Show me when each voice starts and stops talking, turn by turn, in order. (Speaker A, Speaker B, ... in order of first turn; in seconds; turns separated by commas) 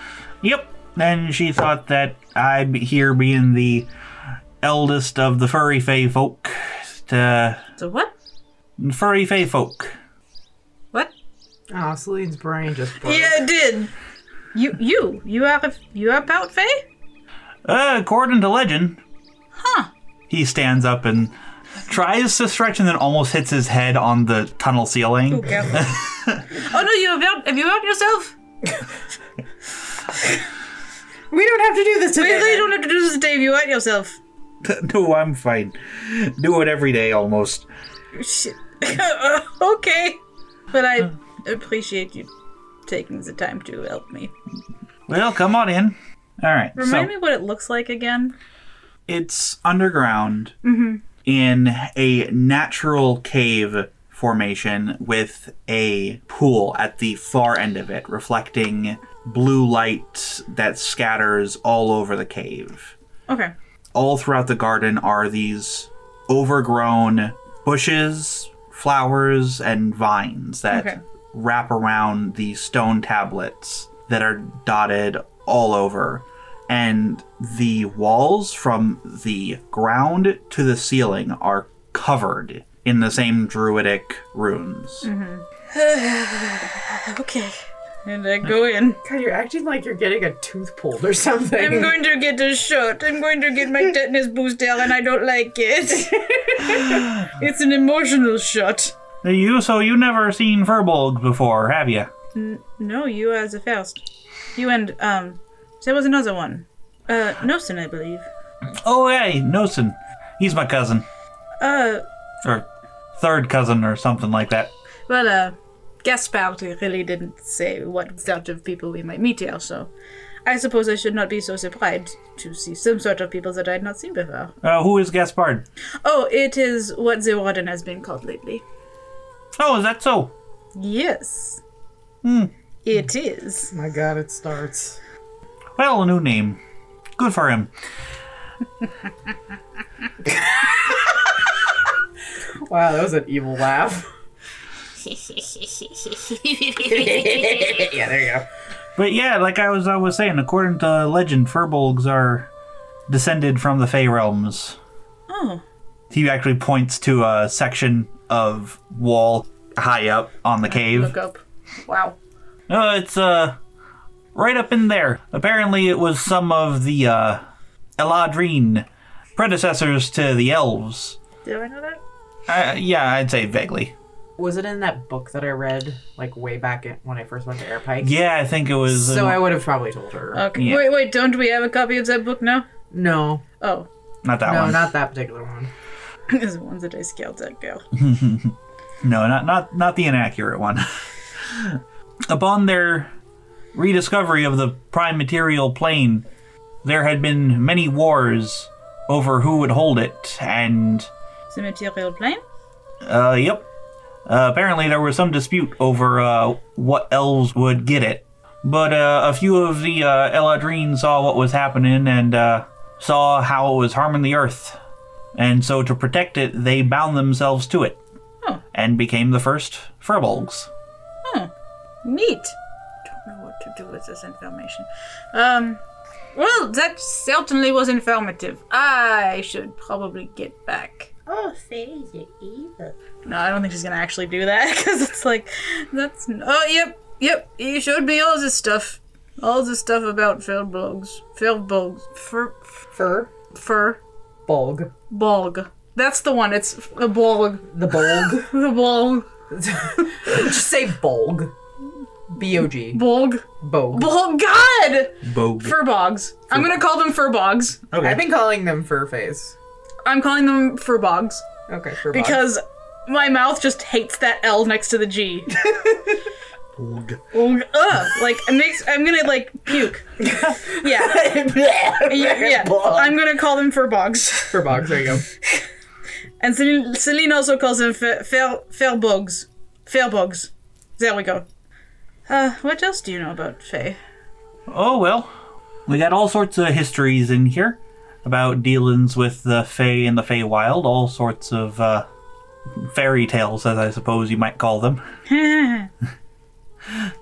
Speaker A: 0.4-3.9, Speaker A: 4.6-7.6, Speaker B: 7.8-8.1, Speaker A: 8.8-9.9, Speaker C: 11.7-13.4, Speaker B: 13.0-13.9, Speaker B: 14.5-16.8, Speaker A: 17.7-19.0, Speaker B: 19.6-19.9, Speaker A: 20.3-21.3, Speaker A: 21.9-26.5, Speaker B: 25.3-25.9, Speaker B: 26.5-28.4, Speaker C: 31.3-32.7, Speaker B: 32.2-34.2, Speaker A: 34.6-37.7, Speaker B: 38.1-40.2, Speaker B: 40.7-42.3, Speaker B: 42.9-44.3, Speaker A: 45.1-47.1, Speaker B: 46.8-48.4, Speaker A: 49.1-50.5, Speaker B: 50.6-51.0, Speaker A: 51.2-63.0, Speaker B: 63.3-63.5, Speaker A: 63.9-85.1, Speaker B: 70.7-71.0, Speaker B: 85.0-89.0, Speaker C: 89.0-92.0, Speaker B: 91.6-99.0, Speaker A: 99.2-102.1, Speaker B: 102.3-104.0, Speaker B: 104.6-108.3, Speaker A: 108.8-111.1, Speaker B: 111.6-112.0, Speaker A: 112.4-114.7, Speaker B: 115.1-119.9, Speaker B: 120.5-124.5, Speaker A: 124.6-125.7, Speaker B: 126.0-128.6, Speaker A: 129.6-130.3, Speaker B: 130.8-131.6, Speaker A: 132.2-132.5, Speaker B: 132.8-133.7, Speaker C: 133.7-135.0, Speaker A: 135.8-136.6, Speaker A: 137.2-137.7, Speaker C: 140.3-141.0, Speaker C: 142.6-144.1, Speaker B: 145.2-147.7, Speaker C: 146.8-148.5, Speaker A: 149.0-152.5, Speaker A: 153.1-154.8, Speaker B: 155.3-155.6, Speaker A: 156.1-161.1, Speaker B: 160.7-162.2, Speaker A: 162.7-163.6, Speaker A: 164.3-167.4, Speaker A: 168.0-171.2, Speaker B: 171.4-172.0, Speaker A: 172.5-173.9, Speaker C: 174.4-178.2, Speaker A: 178.0-179.4, Speaker C: 178.9-180.5, Speaker B: 180.3-182.7, Speaker A: 180.6-180.8, Speaker C: 182.9-183.4, Speaker B: 183.6-183.9, Speaker A: 184.2-184.9, Speaker C: 184.4-185.7, Speaker B: 186.3-187.8, Speaker A: 187.9-193.1, Speaker A: 193.7-196.2, Speaker A: 196.8-201.1, Speaker B: 201.5-202.4, Speaker A: 203.0-203.7, Speaker A: 204.2-214.8, Speaker A: 215.3-218.0, Speaker A: 218.7-220.7, Speaker B: 221.2-221.5, Speaker B: 222.0-225.8, Speaker B: 226.3-231.1, Speaker C: 231.3-232.9, Speaker B: 233.2-242.6, Speaker C: 242.9-243.3, Speaker B: 243.5-244.0, Speaker C: 244.5-244.9, Speaker B: 245.1-249.3, Speaker C: 247.7-248.5, Speaker C: 249.5-251.5, Speaker C: 252.3-253.0, Speaker B: 252.9-257.8, Speaker C: 253.6-254.1, Speaker A: 255.2-255.8, Speaker A: 256.5-256.8, Speaker A: 257.9-258.2, Speaker C: 258.0-259.6, Speaker B: 260.1-261.4, Speaker C: 261.7-262.4, Speaker B: 262.1-265.7, Speaker A: 266.8-267.2, Speaker B: 267.3-271.4, Speaker C: 270.3-273.2, Speaker B: 272.0-274.6, Speaker C: 274.5-275.3, Speaker B: 276.4-281.4, Speaker B: 282.3-284.0, Speaker A: 284.7-285.3, Speaker A: 285.9-292.1, Speaker A: 292.8-295.0, Speaker B: 295.3-295.9